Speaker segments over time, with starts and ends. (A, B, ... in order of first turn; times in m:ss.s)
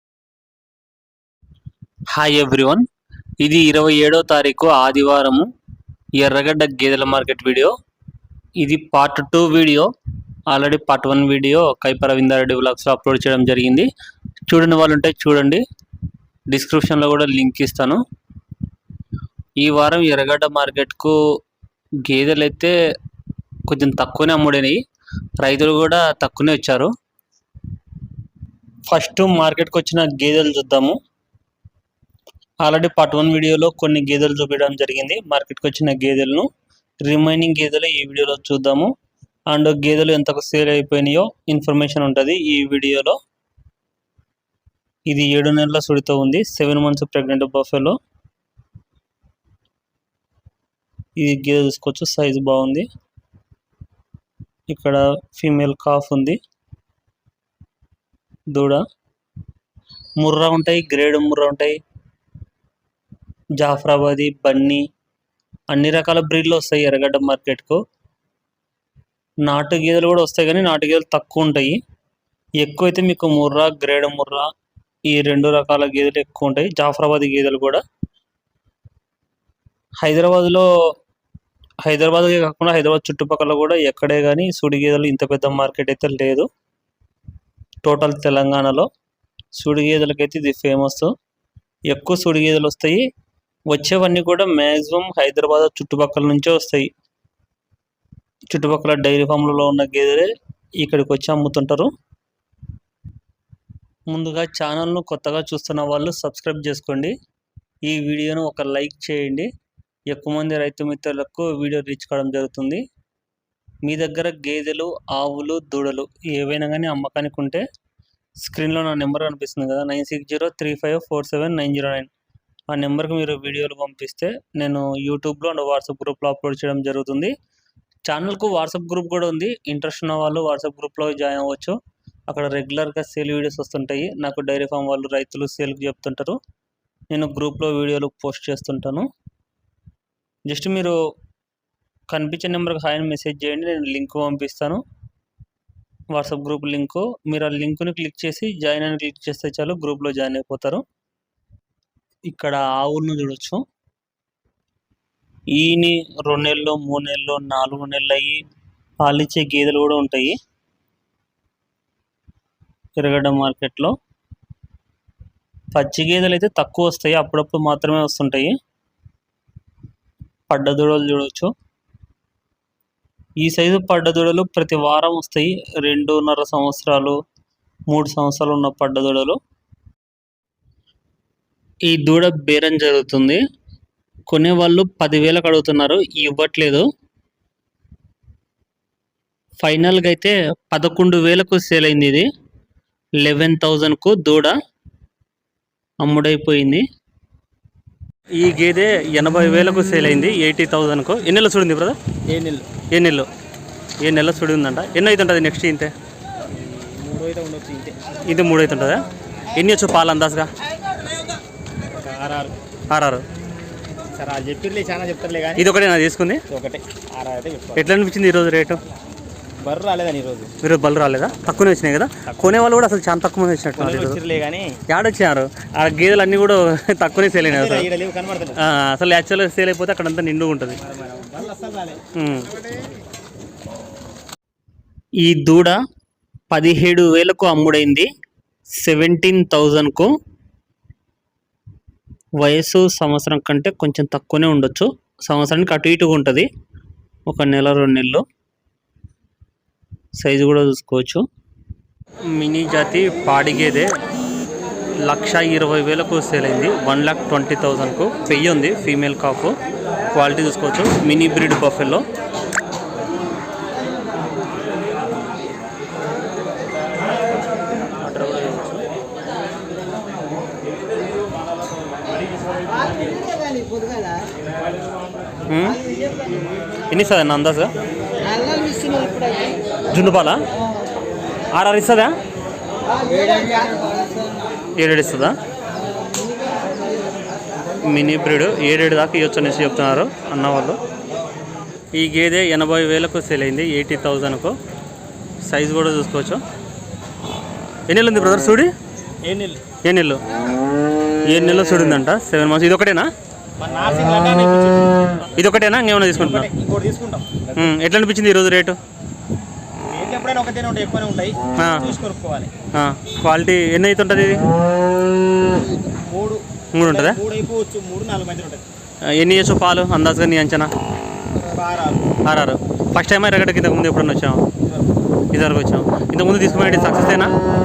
0:02.1-0:02.8 A
0:03.4-0:05.5 A
0:06.2-0:07.7 A
0:08.6-0:09.9 A
0:10.5-0:13.9 A
0:14.5-0:15.6 A
0:16.5-0:18.0 A
0:19.6-0:21.2 A
0:22.0-0:22.7 A
0:23.7-0:24.8 A
0:25.4-0:26.9 A
0:28.9-0:31.0 A
0:32.6-0:36.5 A
0:37.0-0:38.9 A
0:39.5-0:43.2 A
0:45.1-0:48.0 A
0:51.2-0:52.9 A
0:54.7-0:56.4 A
0:58.5-0:58.8 A
1:00.2-1:01.8 A
1:03.6-1:04.8 A
1:05.7-1:07.8 A
1:09.4-1:11.8 A
1:12.6-1:14.5 A
1:15.1-1:17.8 A
1:20.0-1:20.7 A
1:21.8-1:26.5 A
1:27.8-1:28.9 A
1:29.5-1:31.1 A
1:31.9-1:33.0 A
1:33.7-1:36.9 A
1:38.5-1:41.9 A
1:44.1-1:47.2 A
1:47.8-1:49.5 A
1:50.1-1:52.8 A
1:53.8-1:57.6 A
1:58.4-2:02.1 A
2:02.7-2:07.3 A
2:08.1-2:11.8 A
2:12.3-2:16.4 A
2:17.1-2:19.1 A
2:20.5-2:21.0 A
2:22.1-2:24.8 A
2:26.1-2:30.8 A
2:32.3-2:33.6 A
2:35.5-2:38.4 A
2:39.0-2:40.4 A
2:43.0-2:43.9 A
2:45.7-2:48.6 A
2:50.5-2:51.5 A
2:53.4-2:57.2 A
2:57.9-2:59.4 A
3:01.9-3:03.4 A
3:04.3-3:06.8 A
3:09.6-3:12.3 A
3:13.2-3:14.6 A
3:16.0-3:16.8 A
3:18.4-3:22.0 A
3:22.3-3:22.7 B
3:22.9-3:23.3 A
3:24.0-3:25.9 A
3:26.5-3:28.0 B
3:28.2-3:30.5 A
3:31.9-3:32.6 B
3:32.9-3:33.2 A
3:34.2-3:35.7 B
3:35.6-3:36.4 A
3:36.5-3:37.9 B
3:37.8-3:38.8 A
3:39.6-3:40.5 B
3:40.6-3:44.2 A
3:42.3-3:42.6 B
3:43.8-3:44.8 B
3:44.9-3:47.9 A
3:47.4-3:48.6 B
3:48.6-3:50.8 A
3:50.8-3:52.0 B
3:52.2-3:52.5 A
3:55.2-3:55.8 A
3:56.5-3:58.1 A
3:58.8-4:00.1 A
4:02.4-4:06.5 A
4:07.3-4:08.2 A
4:10.2-4:11.2 A
4:12.3-4:13.9 A
4:15.1-4:19.6 A
4:20.1-4:22.0 A
4:28.0-4:28.8 A
4:35.5-4:35.8 A
4:36.9-4:37.7 A
4:38.2-4:39.6 C
4:39.9-4:40.4 A
4:41.5-4:42.1 A
4:43.0-4:44.4 C
4:44.8-4:45.3 A
4:47.9-4:50.8 A
4:52.0-4:54.6 A
4:55.4-4:56.4 A
4:57.9-4:58.7 A
4:59.2-4:59.6 B
4:59.8-5:00.2 A
5:01.3-5:03.1 A
5:03.6-5:05.2 B
5:05.3-5:06.5 A
5:06.1-5:07.5 B
5:07.6-5:08.8 A
5:09.8-5:12.5 B
5:11.6-5:11.9 A
5:12.8-5:14.4 A
5:15.8-5:18.6 B
5:16.7-5:17.2 A
5:19.1-5:20.7 A
5:21.3-5:22.1 B
5:22.2-5:24.4 A
5:24.6-5:24.9 B
5:25.3-5:27.4 A